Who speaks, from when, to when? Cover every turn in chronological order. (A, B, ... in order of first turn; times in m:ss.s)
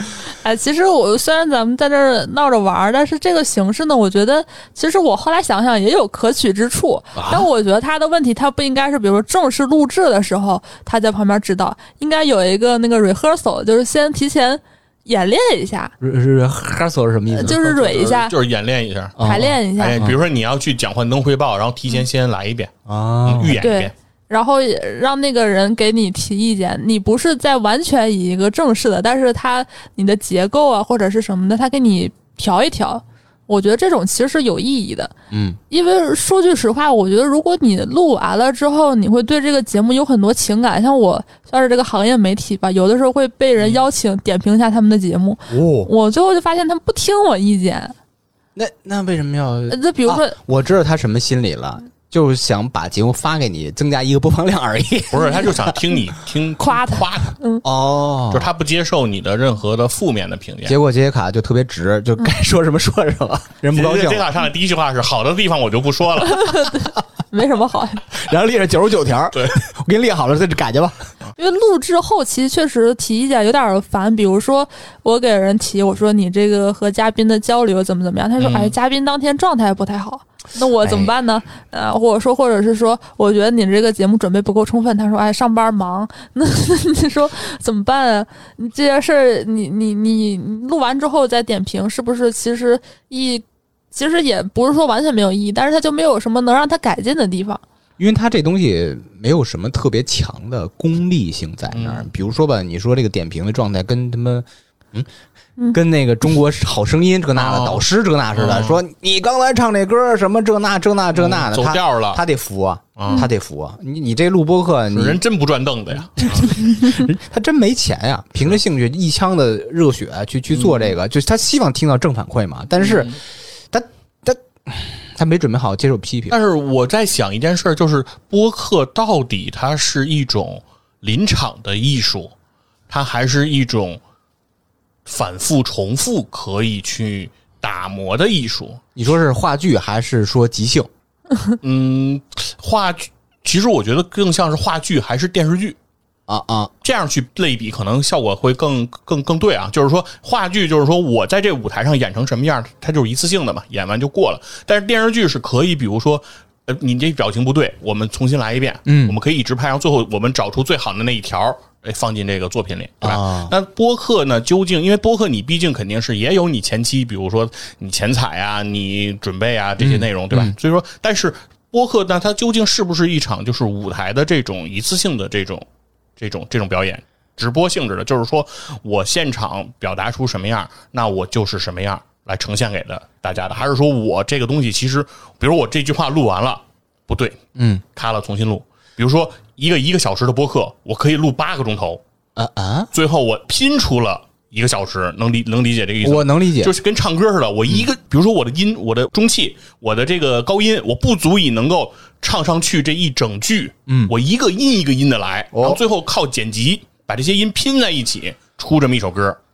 0:00.4-0:15.9 A
0:07.1-0:07.5 B
0:16.0-0:18.1 B
0:17.3-0:18.3 A
0:17.6-0:19.2 C
0:19.2-0:20.2 B
0:19.2-0:20.0 A
0:19.7-0:22.7 C
0:22.9-0:23.6 B
0:23.2-0:23.9 C
0:23.5-0:35.1 A
0:35.3-0:35.6 B
0:35.7-0:47.9 A
0:45.5-0:45.9 B
0:48.6-0:55.8 B
0:49.7-0:50.4 A
0:55.1-0:57.4 C
0:56.6-0:57.6 A
0:57.6-0:58.5 B
0:58.3-1:00.8 C
1:00.6-1:04.3 B
1:03.7-1:06.5 C
1:06.2-1:08.0 A
1:08.1-1:11.1 B
1:11.4-1:37.6 A
1:18.4-1:18.7 C
1:20.8-1:21.1 B
1:38.0-1:45.1 B
1:41.7-1:42.1 C
1:45.7-1:55.2 B
1:47.4-1:47.8 C
1:48.3-1:48.8 C
1:51.1-1:52.2 C
1:53.0-1:53.2 C
1:54.9-1:56.5 C
1:56.2-2:03.2 B
2:00.5-2:00.9 C
2:02.8-2:03.2 C
2:03.7-2:06.4 B
2:06.3-2:12.3 C
2:12.9-2:14.0 C
2:15.0-2:18.8 C
2:18.9-2:20.9 B
2:21.6-2:25.8 C
2:26.3-2:26.7 B
2:26.8-2:55.6 C
2:38.8-2:39.2 B
2:43.0-2:43.5 B
2:49.8-2:50.5 B
2:56.2-3:07.4 C
3:07.6-3:07.8 B
3:07.9-3:12.0 C
3:12.4-3:12.9 B
3:12.9-3:29.4 C
3:16.0-3:16.7 B
3:23.9-3:24.1 B
3:25.5-3:25.8 B